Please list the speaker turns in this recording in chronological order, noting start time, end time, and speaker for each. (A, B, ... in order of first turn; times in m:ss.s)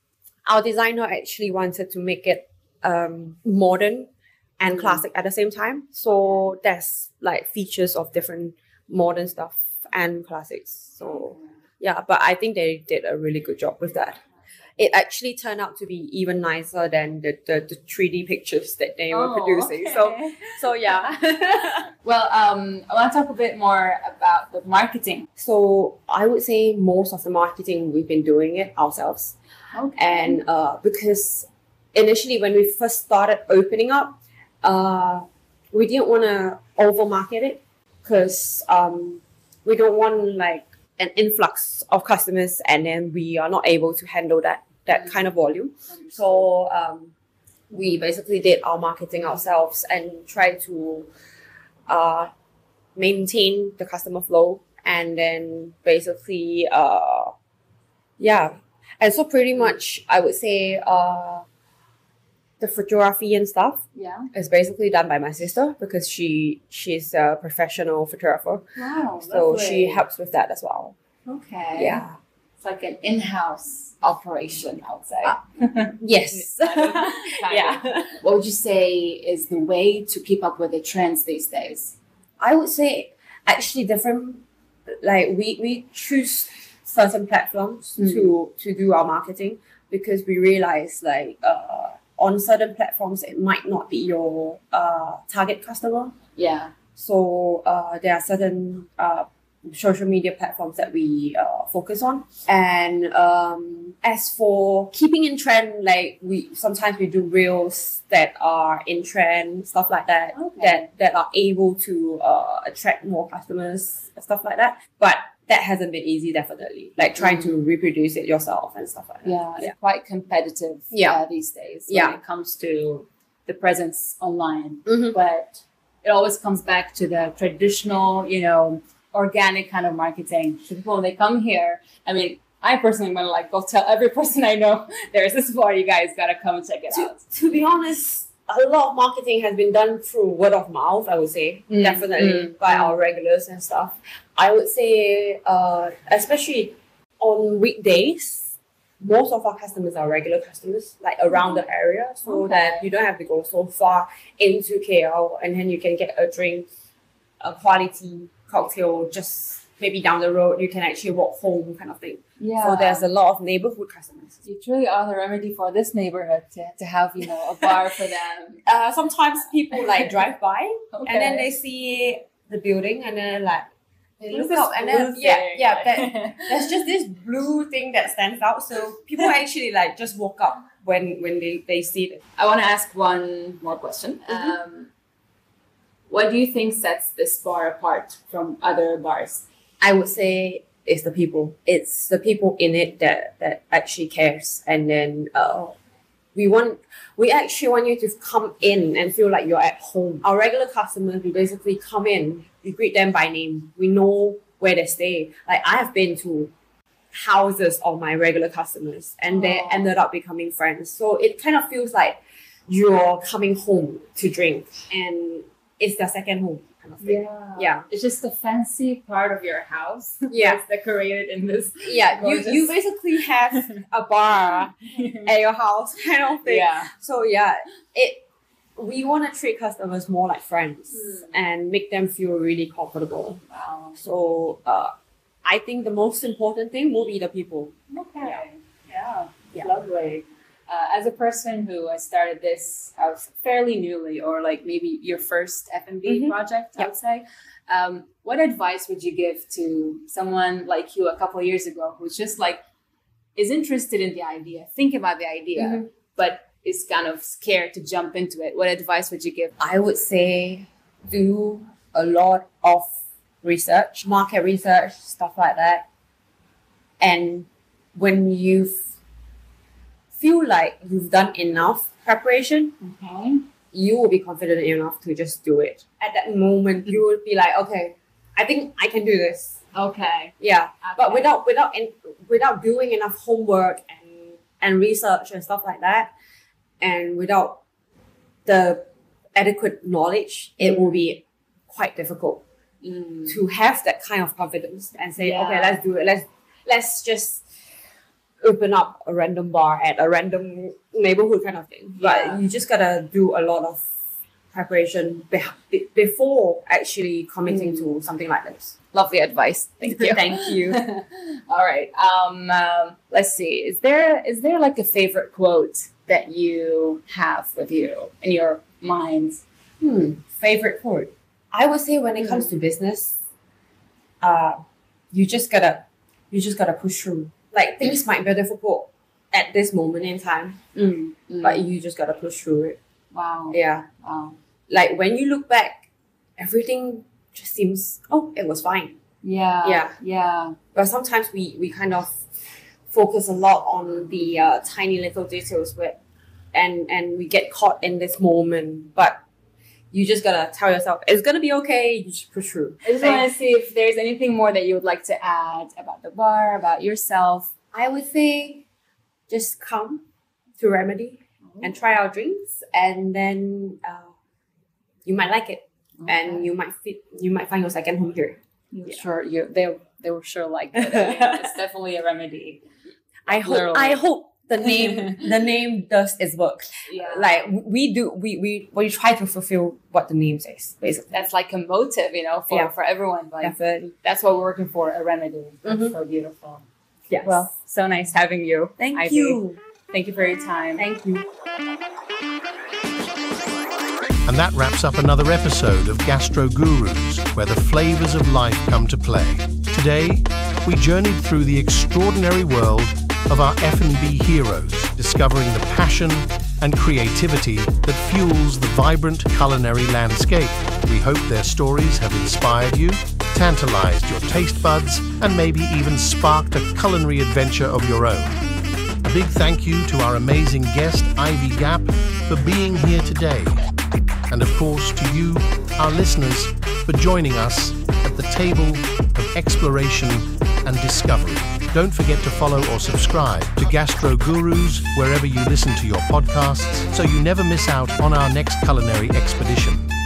0:00.5-0:14.2 A
0:11.1-0:11.4 B
0:14.8-0:21.9 A
0:19.1-0:21.0 B
0:21.9-0:25.3 B
0:25.4-0:29.4 A
0:29.7-0:30.4 B
0:30.0-0:47.1 A
0:44.9-0:45.3 B
0:45.9-0:46.5 B
0:47.7-0:51.1 A
0:51.9-0:52.3 A
0:53.0-0:57.3 A
0:58.2-1:01.4 A
1:02.6-1:08.6 A
1:04.0-1:04.3 B
1:08.8-1:10.0 B
1:09.2-1:11.0 A
1:11.3-1:12.0 B
1:11.8-1:12.2 A
1:12.6-1:22.0 B
1:16.0-1:18.2 A
1:22.4-1:24.4 A
1:25.0-1:36.2 A
1:28.0-1:28.3 B
1:36.4-1:36.7 B
1:37.0-1:59.7 A
1:50.4-1:50.9 B
1:57.2-1:57.5 B
1:59.2-2:17.2 B
2:00.9-2:01.2 A
2:01.9-2:02.2 A
2:04.9-2:05.2 A
2:16.9-2:36.7 A
2:21.7-2:23.0 B
2:31.3-2:31.6 B
2:32.2-2:32.9 B
2:37.4-2:44.4 A
2:42.4-2:43.0 B
2:44.4-2:48.6 B
2:48.7-2:53.7 A
2:49.7-2:50.1 B
2:50.9-2:51.5 B
2:54.2-2:56.8 B
2:54.3-3:02.2 A
3:02.4-3:04.9 B
3:04.3-3:04.6 A
3:06.1-3:09.4 B
3:09.8-3:15.8 A
3:16.4-3:26.5 A
3:27.1-3:37.8 A
3:29.3-3:29.9 B
3:37.0-3:42.7 B
3:40.3-3:40.6 A
3:41.8-3:48.2 A
3:43.5-3:43.8 B
3:44.3-3:45.3 B
3:46.4-3:46.9 B
3:48.8-3:53.4 A
3:50.9-3:51.3 B
3:53.5-3:54.0 B
3:54.0-3:54.9 A
3:55.4-3:58.4 A
3:57.9-4:12.6 B
4:06.1-4:06.9 A
4:13.4-4:19.5 B
4:15.6-4:15.9 A
4:19.6-4:22.9 A
4:23.4-4:25.8 A
4:27.0-4:28.9 A
4:30.1-4:32.7 A
4:32.8-4:33.4 B
4:33.7-4:39.6 A
4:39.7-4:41.3 B
4:40.4-4:46.1 A
4:46.8-4:47.6 A
4:48.5-4:52.4 A
4:50.6-4:51.0 B
4:52.8-4:53.4 B
4:53.3-4:57.4 A
4:55.2-4:55.8 B
4:58.4-5:03.8 A
5:02.0-5:02.4 B
5:04.5-5:08.7 A
5:07.5-5:07.9 B
5:08.9-5:19.4 B
5:09.8-5:10.8 A
5:19.8-5:23.2 A
5:22.2-5:22.5 B
5:24.2-5:24.6 A
5:25.1-5:30.6 A
5:30.8-5:31.6 B
5:31.4-5:32.8 A
5:33.1-5:34.4 B
5:33.5-5:33.9 A
5:34.7-5:35.8 A
5:36.4-5:39.0 A
5:39.2-5:40.6 B
5:39.6-5:40.0 A
5:40.8-5:42.3 A
5:42.9-5:46.0 A
5:46.5-5:49.2 A
5:49.9-5:53.3 A
5:52.8-5:57.5 B
5:57.7-5:58.6 A
5:59.3-6:00.0 A
6:00.6-6:04.1 A
6:01.5-6:01.9 B
6:05.1-6:09.0 A
6:06.0-6:06.5 B
6:08.7-6:12.6 B
6:13.3-6:21.2 A
6:13.3-6:14.0 B
6:14.6-6:15.3 B
6:16.9-6:17.5 B
6:21.1-6:26.6 B
6:23.4-6:23.9 A
6:25.6-6:25.9 A
6:27.1-6:27.5 A
6:27.2-6:30.8 B
6:28.8-6:29.6 A
6:30.8-6:31.3 A
6:34.3-6:58.4 C
6:59.0-7:03.6 C
7:04.3-7:19.9 C